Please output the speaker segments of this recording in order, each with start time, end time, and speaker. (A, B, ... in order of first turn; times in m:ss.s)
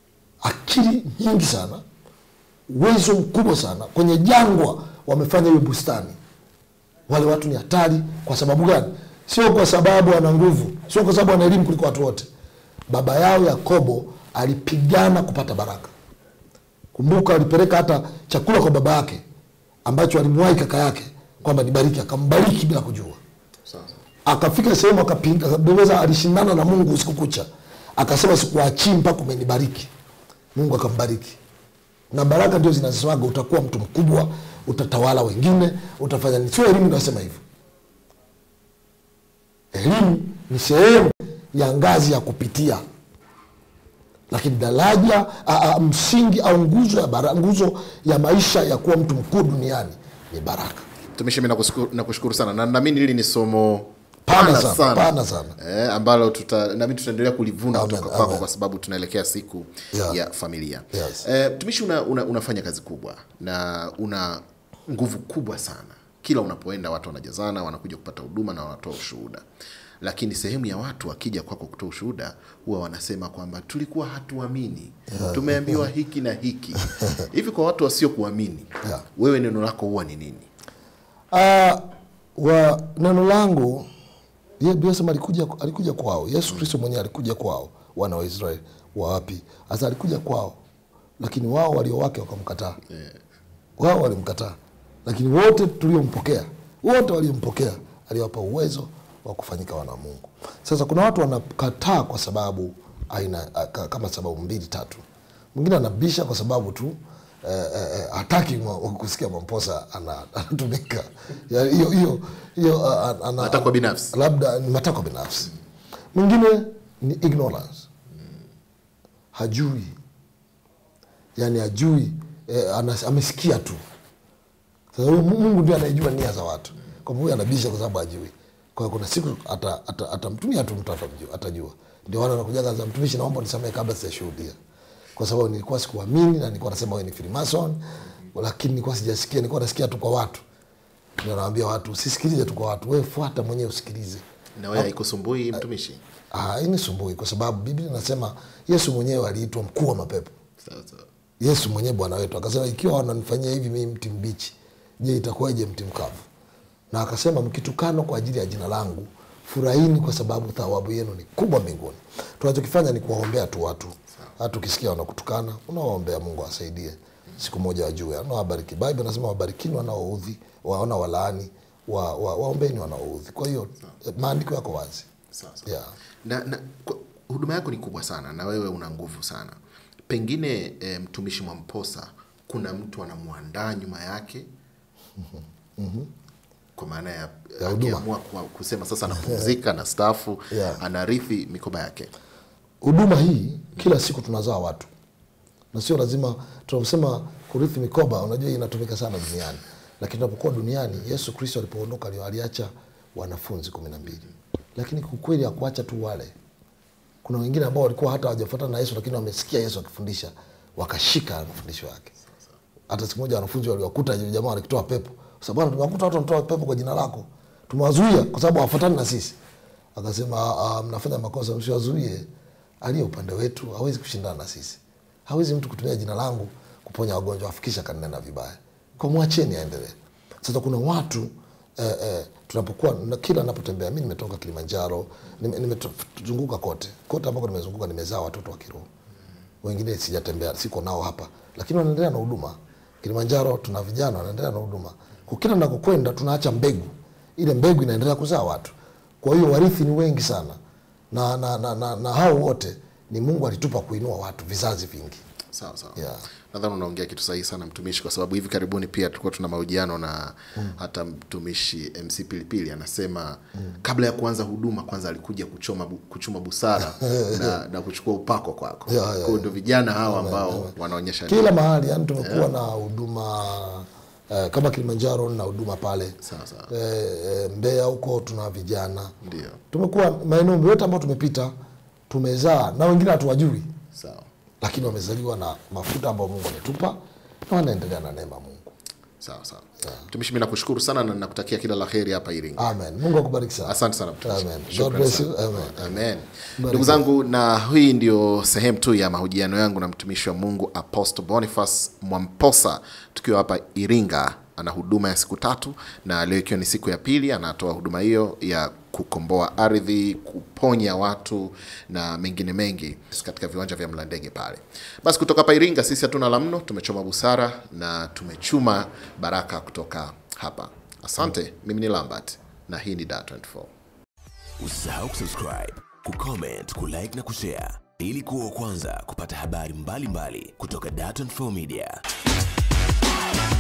0:00.4-0:01.8 A
0:02.7-0:06.2 A
0:07.1-0:12.3 A
0:12.9-0:15.9 A
0:16.9-0:19.2 A
0:19.9-0:23.2 A
0:23.7-0:24.0 B
0:24.3-0:29.9 A
0:30.6-0:31.4 A
0:32.1-0:37.4 A
0:39.7-0:42.8 A
0:44.3-0:50.9 A
0:51.2-1:09.4 B
0:54.3-0:55.6 A
0:57.7-0:58.5 A
1:00.9-1:01.2 A
1:10.0-1:20.5 B
1:15.1-1:15.9 A
1:21.3-1:21.8 A
1:22.4-1:23.9 A
1:24.6-1:30.6 A
1:31.2-1:32.8 A
1:32.9-1:33.2 B
1:33.8-1:55.5 A
1:53.4-1:54.2 B
1:56.1-1:57.9 A
1:59.3-2:00.0 A
2:01.4-2:03.8 A
2:04.9-2:14.6 A
2:15.2-2:17.8 A
2:18.3-2:20.4 A
2:21.2-2:24.2 A
2:24.6-2:26.0 B
2:26.3-2:30.4 A
2:30.6-2:31.1 B
2:31.4-2:36.3 A
2:36.9-2:55.1 A
2:55.3-2:55.7 B
2:55.7-2:55.9 A
2:56.2-3:04.5 B
3:05.2-3:06.1 A
3:06.8-3:12.1 B
3:07.6-3:08.1 A
3:09.2-3:09.5 A
3:10.5-3:10.8 A
3:12.8-3:14.9 A
3:15.7-3:24.2 A
3:24.8-3:26.3 A
3:27.2-3:32.1 A
3:32.9-3:39.4 A
3:40.0-3:42.3 A
3:42.8-3:58.9 A
3:59.6-4:10.6 A
4:11.1-4:15.2 A
4:15.5-4:31.6 B
4:16.0-4:16.2 A
4:26.9-4:27.6 A
4:28.9-4:29.5 A
4:30.1-4:30.7 A
4:31.3-4:36.2 A
4:32.2-4:32.5 B
4:36.2-4:36.7 B
4:36.7-4:39.1 A
4:39.2-4:39.6 B
4:39.7-4:41.5 A
4:42.1-4:43.7 A
4:43.9-4:44.3 B
4:44.6-4:48.7 A
4:49.2-4:52.7 B
4:52.6-4:56.0 A
4:53.6-5:23.7 B
4:56.6-4:57.0 A
5:24.6-5:32.0 C